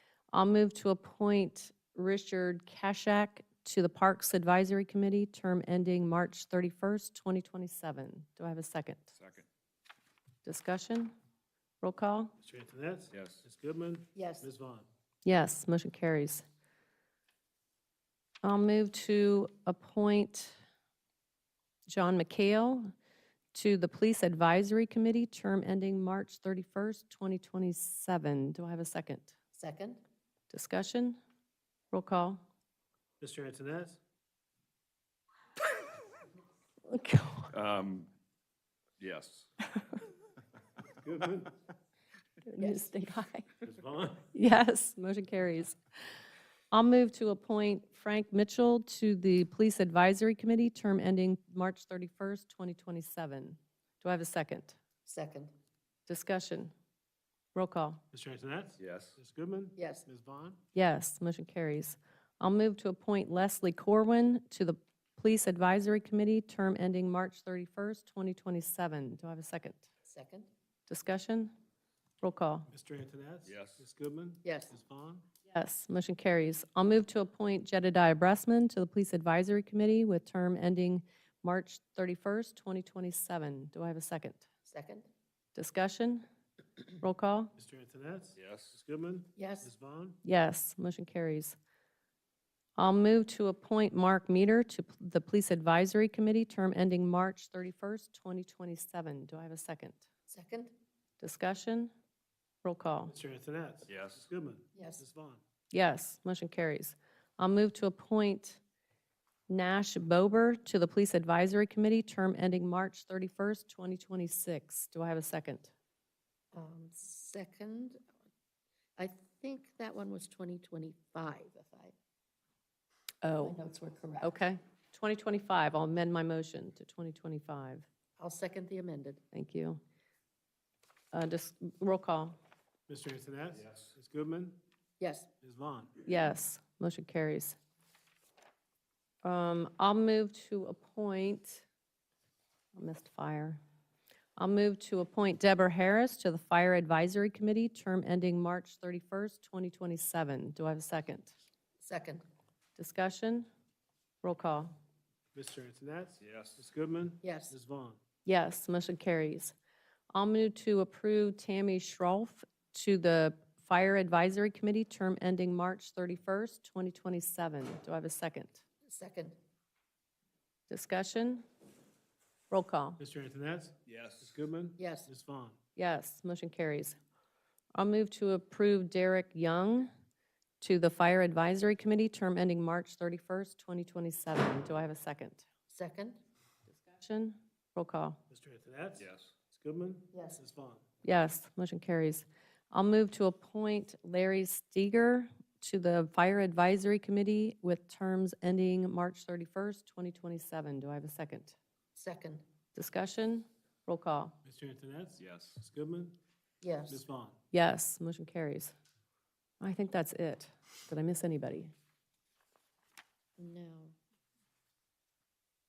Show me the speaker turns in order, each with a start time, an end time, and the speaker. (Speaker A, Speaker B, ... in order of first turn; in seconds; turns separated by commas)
Speaker A: 0.3-9.1, Speaker B: 9.1-9.5, Speaker A: 10.4-11.1, Speaker A: 11.8-12.3, Speaker C: 12.4-14.9, Speaker B: 13.1-13.4, Speaker D: 14.1-14.5, Speaker A: 15.2-16.4, Speaker A: 18.4-20.6, Speaker A: 21.9-22.9, Speaker A: 23.5-29.4, Speaker D: 29.6-30.0, Speaker A: 30.5-31.2, Speaker A: 31.9-32.4, Speaker C: 33.2-34.0, Speaker A: 36.9-37.5, Speaker B: 37.5-38.1, Speaker B: 39.0-39.5, Speaker C: 40.9-41.6, Speaker A: 42.4-43.5, Speaker D: 42.6-42.9, Speaker C: 43.6-44.3, Speaker A: 44.3-45.8, Speaker A: 46.7-54.8, Speaker D: 55.0-55.5, Speaker A: 56.1-56.7, Speaker A: 57.5-58.0, Speaker C: 58.1-60.6, Speaker B: 58.8-59.2, Speaker D: 59.8-60.0, Speaker A: 60.7-69.9, Speaker D: 70.1-70.5, Speaker A: 70.9-71.5, Speaker A: 72.2-72.7, Speaker C: 72.7-75.2, Speaker B: 73.4-73.8, Speaker D: 74.4-74.7, Speaker A: 75.5-84.4, Speaker D: 84.7-85.1, Speaker A: 85.5-86.2, Speaker A: 87.0-87.5, Speaker C: 87.6-90.2, Speaker B: 88.3-88.8, Speaker D: 89.3-89.7, Speaker A: 90.2-91.6, Speaker A: 92.8-100.0, Speaker D: 100.3-100.7, Speaker A: 101.2-101.9, Speaker A: 102.6-103.1, Speaker C: 103.1-105.4, Speaker B: 103.8-104.3, Speaker D: 104.7-105.0, Speaker A: 105.7-108.6, Speaker A: 109.5-115.7, Speaker D: 116.5-118.1, Speaker D: 119.0-121.9, Speaker A: 123.2-123.6, Speaker D: 123.4-124.4, Speaker A: 124.2-127.8, Speaker D: 128.2-129.2, Speaker A: 129.3-129.8, Speaker A: 131.1-132.3, Speaker C: 132.9-134.6, Speaker B: 133.6-133.9, Speaker D: 135.0-135.3, Speaker C: 135.4-135.9, Speaker A: 136.0-137.6, Speaker A: 139.2-141.7, Speaker A: 142.7-143.6, Speaker A: 144.4-151.3, Speaker D: 151.8-152.2, Speaker A: 152.8-153.5, Speaker A: 154.2-154.7, Speaker C: 155.3-158.0, Speaker B: 156.2-156.6, Speaker D: 157.2-157.5, Speaker A: 158.2-159.6, Speaker A: 160.1-168.6, Speaker D: 168.8-169.4, Speaker A: 170.7-171.4, Speaker A: 172.5-173.0, Speaker C: 173.0-175.6, Speaker B: 173.8-174.4, Speaker D: 174.8-175.1, Speaker A: 175.8-176.9, Speaker A: 177.7-179.9, Speaker A: 180.6-185.4, Speaker D: 185.7-186.2, Speaker A: 186.7-188.2, Speaker C: 188.3-190.8, Speaker B: 189.0-189.3, Speaker D: 190.1-190.4, Speaker A: 191.0-201.6, Speaker D: 201.9-202.4, Speaker A: 202.7-204.4, Speaker C: 204.4-206.2, Speaker B: 205.2-205.6, Speaker D: 206.6-207.0, Speaker C: 206.9-207.4, Speaker A: 207.5-208.7, Speaker A: 209.6-211.7, Speaker D: 213.4-213.9